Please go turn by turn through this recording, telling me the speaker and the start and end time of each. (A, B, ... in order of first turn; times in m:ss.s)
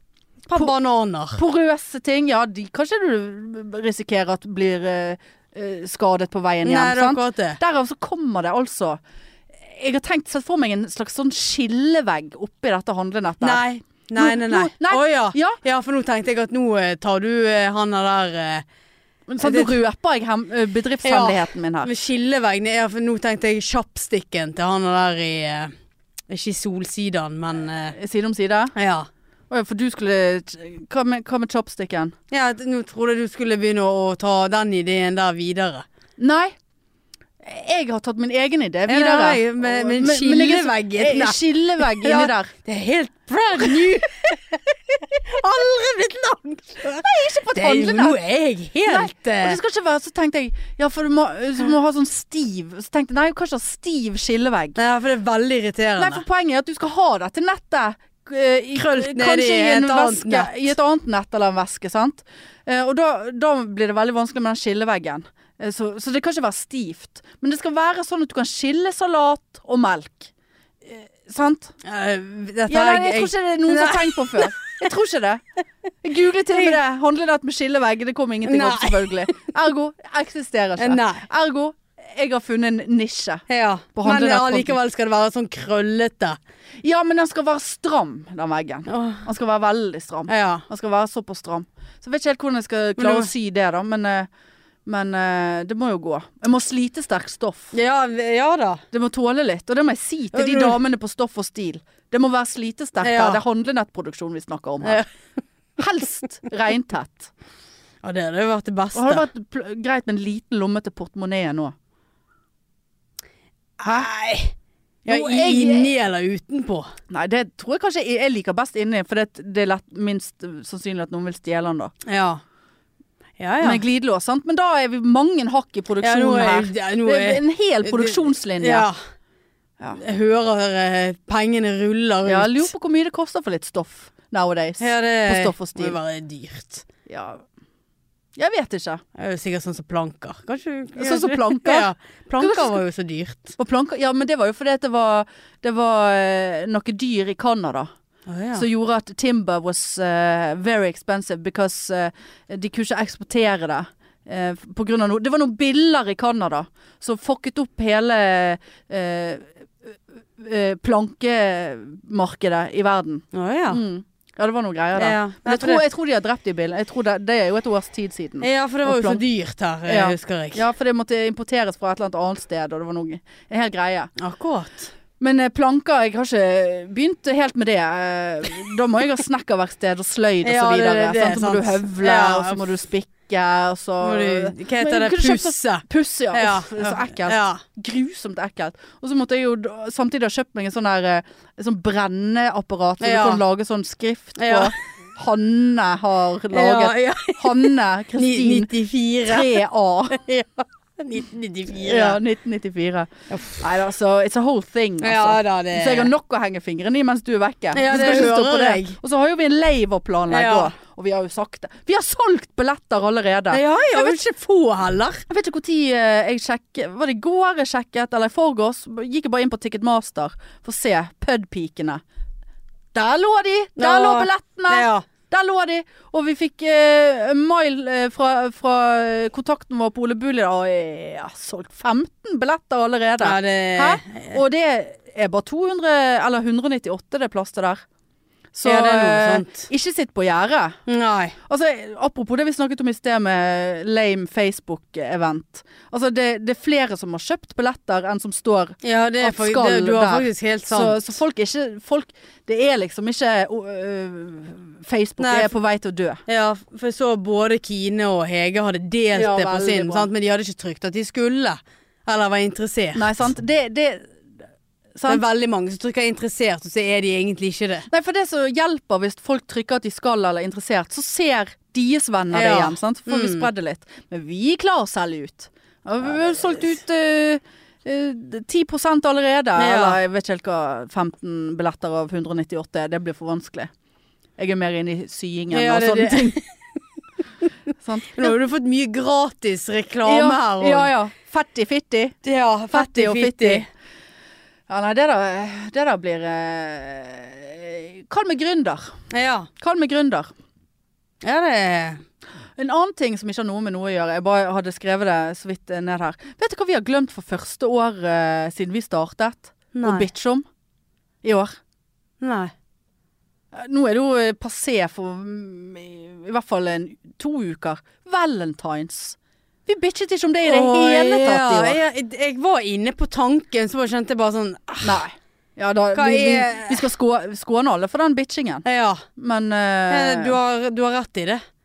0:00.4-0:01.4 A
0:01.4-0:09.0 B
0:06.6-0:07.6 A
0:09.7-0:13.6 B
0:13.4-0:18.6 A
0:14.2-0:15.6 B
0:19.3-0:21.9 B
0:19.4-0:19.8 A
0:21.0-0:25.7 A
0:26.3-0:28.0 A
0:27.9-0:28.8 B
0:28.8-0:29.1 A
0:29.5-0:32.2 B
0:32.3-0:35.9 A
0:36.2-0:36.6 B
0:37.4-0:42.5 B
0:38.9-0:49.6 A
0:43.6-0:44.0 B
0:47.0-0:48.2 B
0:48.9-0:54.8 B
0:54.8-0:56.2 A
0:56.0-1:10.3 B
0:58.9-1:00.7 A
1:10.8-1:11.8 B
1:11.8-1:14.9 A
1:12.7-1:15.4 B
1:16.0-1:24.8 B
1:18.4-1:19.3 A
1:20.8-1:21.2 A
1:23.5-1:26.4 A
1:26.8-1:34.3 B
1:28.9-1:29.2 A
1:30.3-1:30.6 A
1:33.0-1:33.3 A
1:34.9-1:37.8 B
1:37.7-1:38.8 A
1:38.9-1:45.0 B
1:40.3-1:40.8 A
1:43.0-1:43.4 A
1:44.8-1:45.1 A
1:45.8-1:47.3 B
1:48.0-1:49.3 A
1:48.9-1:51.7 B
1:53.8-1:54.5 A
1:55.1-1:55.9 B
1:55.1-1:56.9 A
1:57.1-2:01.9 B
2:02.0-2:02.4 A
2:03.4-2:03.8 A
2:03.6-2:08.9 B
2:06.0-2:09.0 A
2:10.0-2:12.7 A
2:12.2-2:16.0 B
2:14.8-2:16.8 A
2:17.1-2:17.4 B
2:18.4-2:19.0 B
2:19.2-2:23.6 A
2:21.0-2:22.8 B
2:23.6-2:27.9 B
2:28.3-2:28.7 A
2:28.5-2:39.5 B
2:40.4-2:49.2 B
2:43.3-2:43.8 A
2:45.0-2:45.8 A
2:48.4-2:50.6 A
2:49.9-2:54.1 B
2:54.2-2:54.9 A
2:55.2-3:18.7 B
3:00.4-3:02.7 A
3:04.0-3:07.6 A
3:13.0-3:13.4 A
3:14.4-3:14.7 A
3:16.5-3:19.6 A
3:19.3-3:20.2 B
3:20.1-3:22.2 A
3:21.8-3:34.2 B
3:23.3-3:23.7 A
3:25.0-3:26.1 A
3:27.7-3:29.0 A
3:30.3-3:30.7 A
3:33.5-3:35.2 A
3:35.3-3:42.0 B
3:42.9-3:57.8 B
3:43.8-3:45.1 A
3:53.2-3:54.4 A
3:58.5-4:00.8 B
3:58.6-3:59.7 A
4:00.9-4:01.4 A
4:01.5-4:16.2 B
4:08.8-4:11.0 A
4:15.2-4:15.5 A
4:16.3-4:23.3 A
4:19.1-4:20.1 B
4:23.0-4:24.1 B
4:25.0-4:25.2 B
4:25.1-4:27.9 A
4:27.9-4:43.7 B
4:32.3-4:33.5 A
4:39.6-4:40.0 A
4:44.4-4:46.4 B
4:45.5-4:46.8 A
4:47.8-4:48.4 B
4:48.1-4:50.9 A
4:50.0-4:52.2 B
4:52.2-4:53.7 A
4:52.7-4:53.7 B
4:54.7-4:59.0 B
4:59.1-4:59.5 A
4:59.6-5:00.3 B
5:01.2-5:02.0 A
5:02.6-5:10.4 B
5:09.7-5:10.1 A
5:11.2-5:11.6 B
5:12.2-5:12.5 A
5:13.5-5:21.8 B
5:20.4-5:25.0 A
5:24.8-5:28.6 B
5:25.9-5:26.8 A
5:28.6-5:29.0 A
5:29.2-5:30.4 B
5:29.9-5:31.4 A